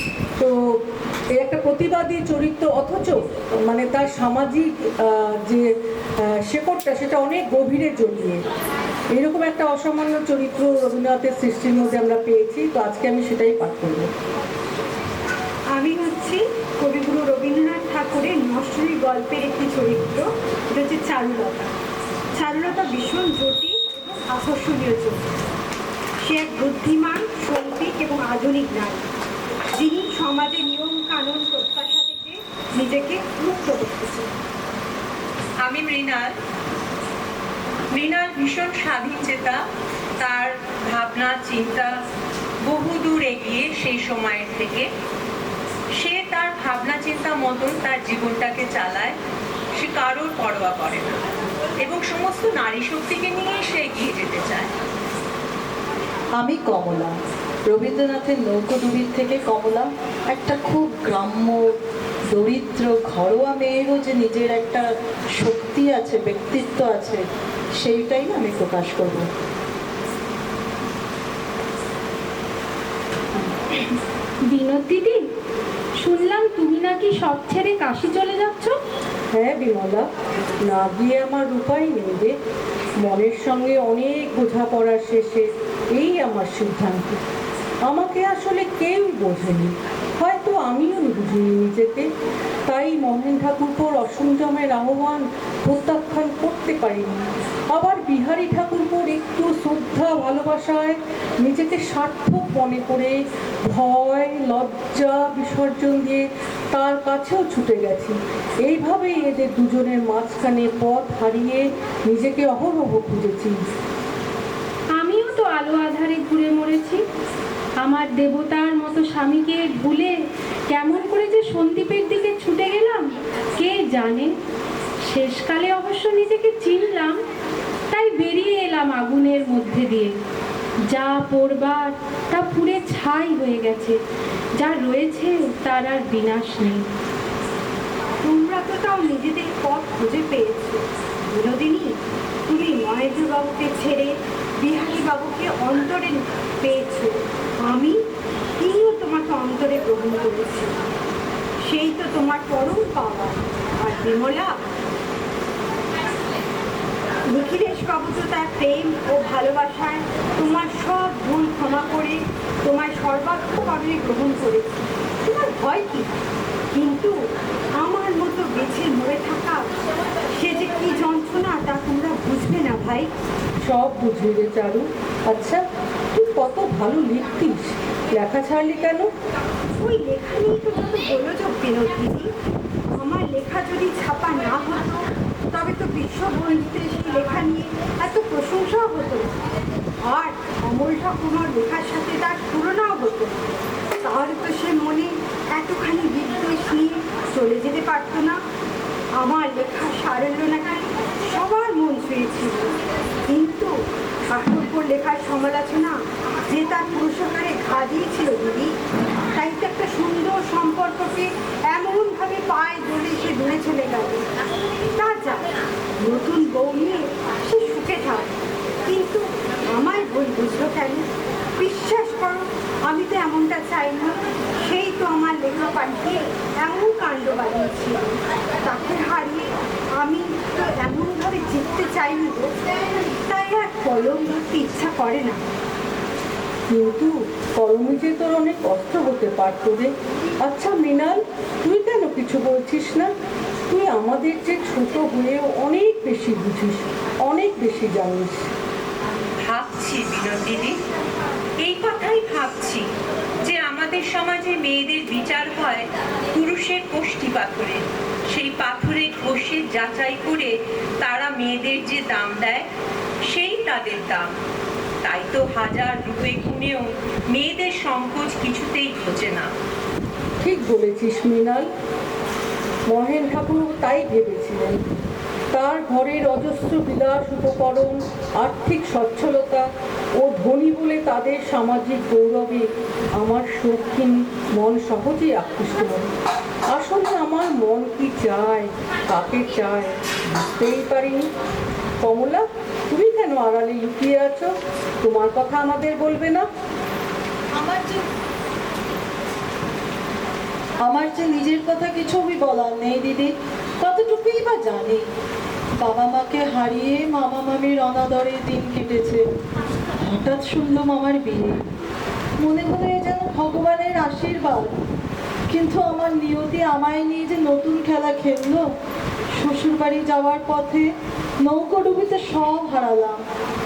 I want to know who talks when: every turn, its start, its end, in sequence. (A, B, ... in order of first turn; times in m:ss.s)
0:01.4-0:08.4 A
0:09.1-0:14.1 A
0:15.7-0:21.7 B
0:22.3-0:25.3 B
0:26.2-0:29.1 B
0:29.7-0:34.3 B
0:35.6-0:36.4 C
0:37.9-0:39.6 C
0:40.2-0:42.0 C
0:42.6-0:44.9 C
0:46.0-0:49.2 C
0:49.8-0:51.2 C
0:51.8-0:54.7 C
0:56.4-0:57.1 D
0:57.7-1:01.8 D
1:02.3-1:04.9 D
1:05.4-1:07.2 D
1:07.8-1:09.3 D
1:14.5-1:15.2 E
1:16.0-1:18.8 E
1:19.3-1:20.1 A
1:20.6-1:22.4 A
1:23.0-1:27.2 A
1:27.9-1:32.1 A
1:32.7-1:53.6 A
1:55.0-1:57.0 E
1:57.8-2:00.2 E
2:00.7-2:04.3 E
2:05.1-2:07.2 E
2:07.9-2:10.1 E
2:10.9-2:14.0 E
2:14.6-2:16.8 E
2:18.2-2:22.0 B
2:22.5-2:28.0 B
2:28.6-2:30.8 B
2:31.6-2:34.6 B
2:37.3-2:44.7 B
2:45.2-2:46.1 B
2:46.7-2:47.2 B
2:47.8-2:49.7 B
2:50.3-2:53.1 B
2:53.6-2:55.6 A
2:56.1-2:59.1 A
2:59.8-3:02.3 B
3:03.0-3:09.5 B
3:10.0-3:18.4 B
3:19.2-3:22.7 B
3:23.3-3:23.7 B
3:24.3-3:26.0 B
3:26.5-3:28.7 B
3:29.4-3:34.2 B
3:35.0-3:35.5 B
3:36.0-3:48.1 B
3:48.6-3:52.5 B
3:53.3-3:55.4 B
3:56.7-4:03.1 A
4:03.7-4:08.5 A
4:09.4-4:10.8 C
4:11.6-4:12.9 C
4:13.4-4:22.7 C
4:23.3-4:24.3 C
4:25.0-4:29.5 C
4:30.4-4:31.7 A
4:32.9-4:34.8 A
4:35.5-4:42.7 A
4:43.2-4:46.1 A
4:46.7-4:51.3 A
4:52.0-4:56.5 A
4:57.5-4:58.0 D
5:00.8-5:05.0 D
5:05.8-5:09.2 D
5:10.0-5:11.6 D
5:12.4-5:14.8 D
5:15.5-5:18.6 D
5:19.4-5:20.9 D
5:21.4-5:23.2 D